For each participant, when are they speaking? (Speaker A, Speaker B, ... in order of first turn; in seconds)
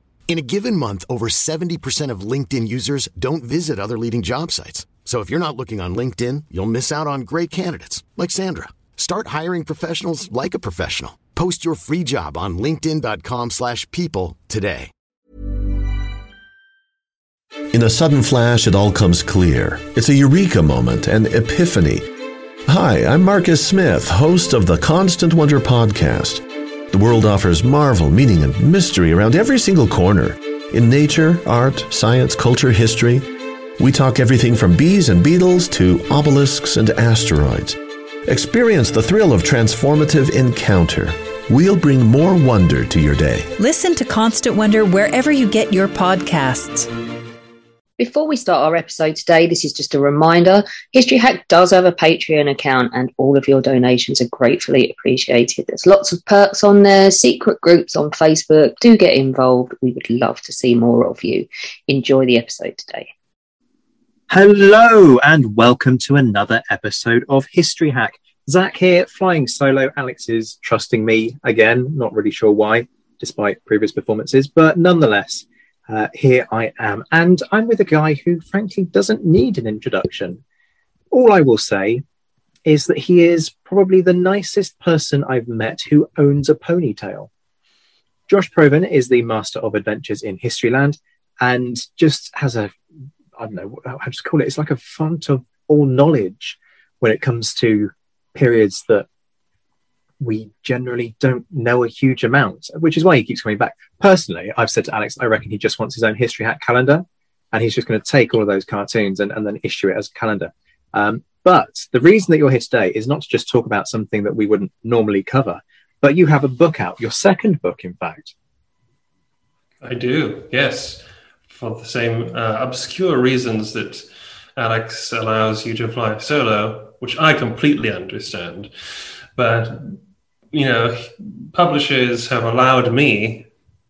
Speaker A: 0.3-14.9
Speaker B: 17.7-22.1, 22.7-43.5
Speaker C: 43.6-46.9
Speaker D: 48.0-63.1
Speaker E: 64.3-80.4, 81.1-82.0, 82.7-87.3, 88.3-92.8, 93.4-99.1, 100.2-118.3
Speaker F: 119.8-124.1, 124.6-128.7, 129.4-130.0, 130.5-133.5